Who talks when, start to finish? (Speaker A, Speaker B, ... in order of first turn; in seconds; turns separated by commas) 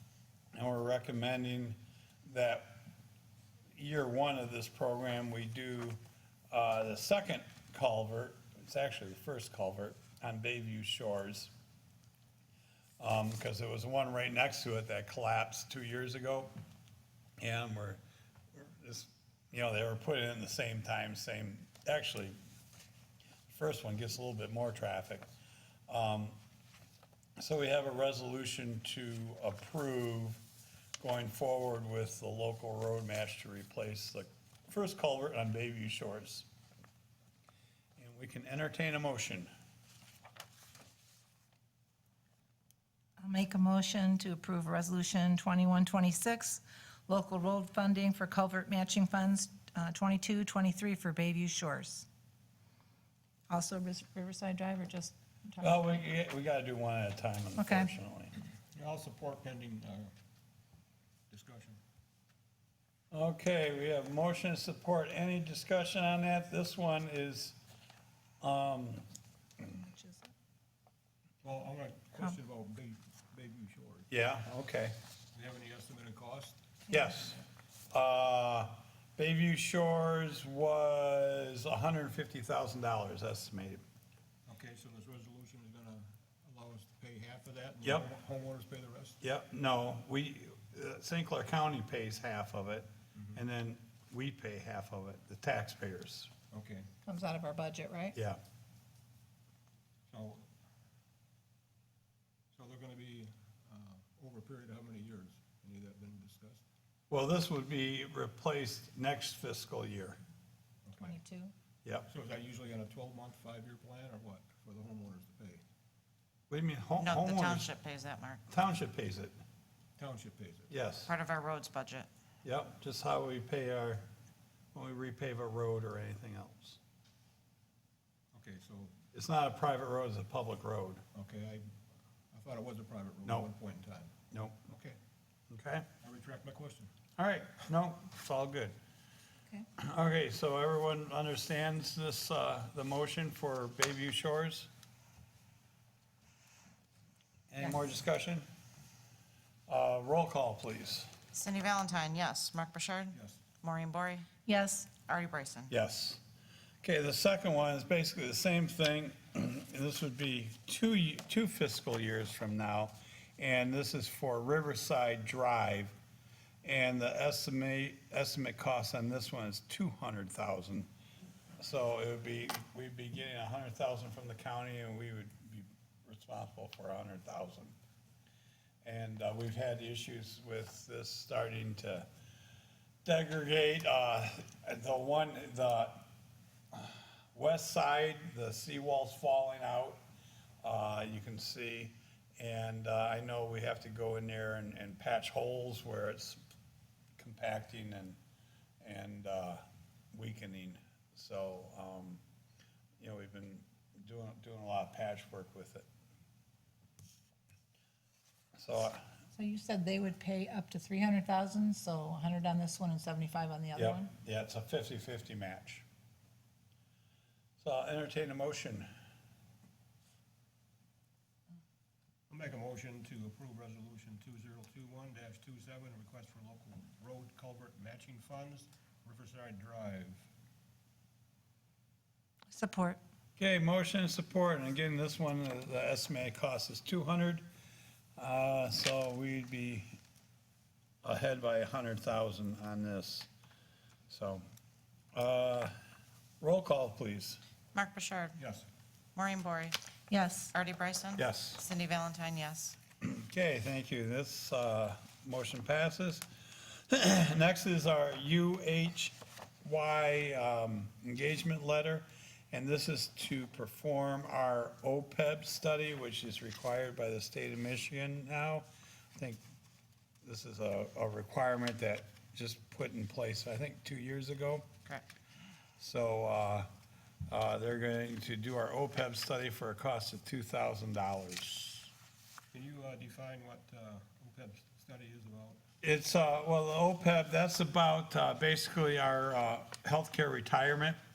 Speaker A: 0.5-2.8, Speaker A: 3.8-6.0, Speaker A: 6.5-11.5, Speaker A: 13.0-16.5, Speaker A: 17.4-18.0, Speaker A: 18.5-22.4, Speaker A: 23.5-25.2, Speaker A: 25.9-26.4, Speaker A: 27.4-30.4, Speaker A: 31.0-36.5, Speaker A: 38.0-39.5, Speaker B: 43.2-52.0, Speaker B: 53.5-56.0, Speaker A: 55.6-58.3, Speaker B: 57.6-57.9, Speaker C: 58.7-60.1, Speaker C: 61.3-61.8, Speaker A: 63.1-67.6, Speaker A: 68.4-69.0, Speaker B: 69.9-70.2, Speaker C: 71.4-74.1, Speaker A: 74.1-74.9, Speaker C: 75.3-76.6, Speaker A: 76.9-77.4, Speaker A: 77.9-83.8, Speaker C: 84.5-89.2, Speaker A: 89.2-96.3, Speaker C: 96.5-96.9, Speaker B: 97.0-98.1, Speaker C: 100.1-100.5, Speaker C: 102.5-106.6, Speaker A: 107.1-110.2, Speaker C: 110.8-111.2, Speaker B: 111.0-111.5, Speaker C: 112.1-115.6, Speaker A: 116.5-117.7, Speaker D: 117.0-118.4, Speaker A: 118.5-119.3, Speaker C: 120.0-120.7, Speaker A: 120.7-121.1, Speaker D: 121.0-122.1, Speaker A: 122.4-124.0, Speaker A: 124.7-126.8, Speaker C: 128.3-128.9, Speaker A: 129.1-131.0, Speaker C: 131.1-131.7, Speaker C: 132.3-134.1, Speaker A: 134.3-134.6, Speaker C: 134.7-135.0, Speaker A: 135.5-135.8, Speaker C: 136.0-136.9, Speaker A: 137.2-138.7, Speaker A: 139.8-144.7, Speaker A: 147.5-148.4, Speaker A: 149.7-151.1, Speaker D: 151.3-154.3, Speaker C: 153.1-153.4, Speaker B: 154.5-154.9, Speaker D: 155.0-155.7, Speaker A: 155.7-156.2, Speaker A: 156.8-165.9, Speaker A: 166.6-170.9, Speaker A: 171.6-177.7, Speaker A: 178.8-182.1, Speaker A: 183.0-186.1, Speaker A: 186.7-190.0, Speaker A: 190.6-196.4, Speaker A: 197.2-198.2, Speaker A: 198.8-202.2, Speaker A: 203.0-205.9, Speaker A: 208.6-209.0, Speaker B: 209.3-214.1, Speaker A: 213.7-215.8, Speaker A: 217.6-218.9, Speaker C: 222.3-230.3, Speaker B: 232.5-233.0, Speaker A: 233.4-237.4, Speaker A: 238.2-239.9, Speaker A: 241.0-243.3, Speaker A: 244.1-244.4, Speaker A: 245.1-245.7, Speaker A: 246.4-247.4, Speaker D: 247.7-248.4, Speaker C: 248.4-248.7, Speaker D: 249.2-249.8, Speaker B: 250.1-250.5, Speaker D: 250.5-252.8, Speaker A: 251.2-251.6, Speaker A: 253.0-269.4, Speaker A: 270.2-274.6, Speaker A: 275.8-276.7, Speaker A: 277.3-281.9, Speaker C: 282.5-285.6, Speaker A: 285.8-291.0